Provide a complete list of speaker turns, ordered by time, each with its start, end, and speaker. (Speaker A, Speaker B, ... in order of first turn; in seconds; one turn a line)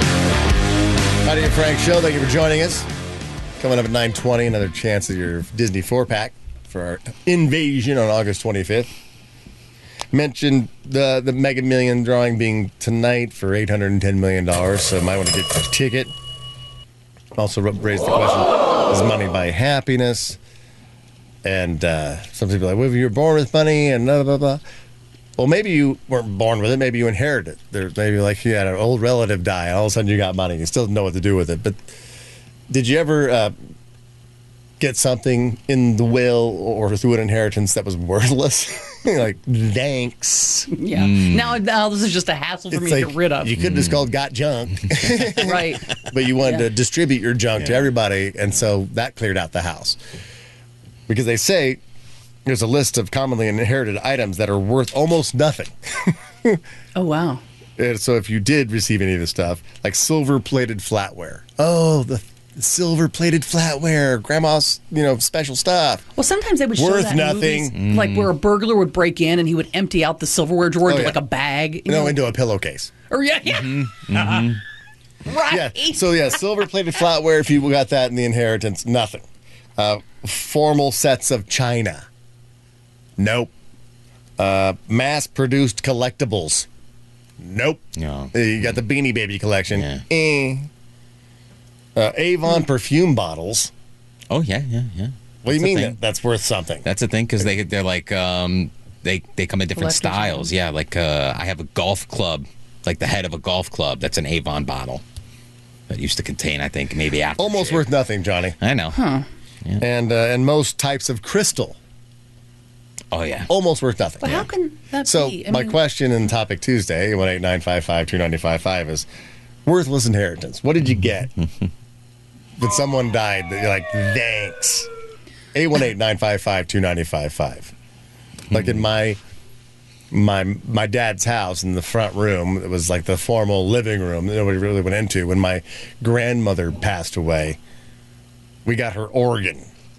Speaker A: 1.2-2.9
Speaker A: 3.6-8.9
Speaker A: 10.1-16.1
Speaker A: 17.4-20.4
Speaker A: 21.4-24.6
Speaker A: 25.4-31.9
Speaker A: 32.7-33.5
Speaker A: 34.8-40.7
Speaker B: 40.7-43.6
Speaker C: 40.9-41.6
Speaker A: 42.7-50.0
Speaker C: 43.6-44.1
Speaker B: 45.4-46.7
Speaker C: 47.6-47.9
Speaker A: 51.1-51.8
Speaker A: 52.5-56.6
Speaker B: 57.0-57.4
Speaker A: 57.8-66.0
Speaker B: 66.2-72.2
Speaker A: 66.8-67.7
Speaker C: 67.8-68.3
Speaker A: 70.8-71.2
Speaker A: 71.9-72.9
Speaker B: 73.1-74.0
Speaker C: 74.1-74.6
Speaker B: 75.3-76.4
Speaker A: 75.5-79.2
Speaker A: 79.8-82.1
Speaker A: 83.2-83.5
Speaker A: 84.4-86.7
Speaker A: 87.4-90.7
Speaker C: 88.0-88.8
Speaker C: 89.7-90.0
Speaker A: 92.0-93.7
Speaker C: 94.3-96.0
Speaker A: 95.4-96.9
Speaker C: 96.8-105.0
Speaker B: 99.8-100.5
Speaker C: 105.9-107.9
Speaker A: 107.4-108.6
Speaker C: 108.6-109.0
Speaker B: 108.9-109.3
Speaker A: 109.8-111.8
Speaker C: 113.1-113.5
Speaker A: 113.5-114.5
Speaker B: 114.2-115.8
Speaker A: 115.0-119.1
Speaker A: 119.7-121.3
Speaker A: 122.6-124.9
Speaker A: 125.5-127.7
Speaker A: 128.5-129.2
Speaker A: 130.1-137.6
Speaker A: 138.7-139.7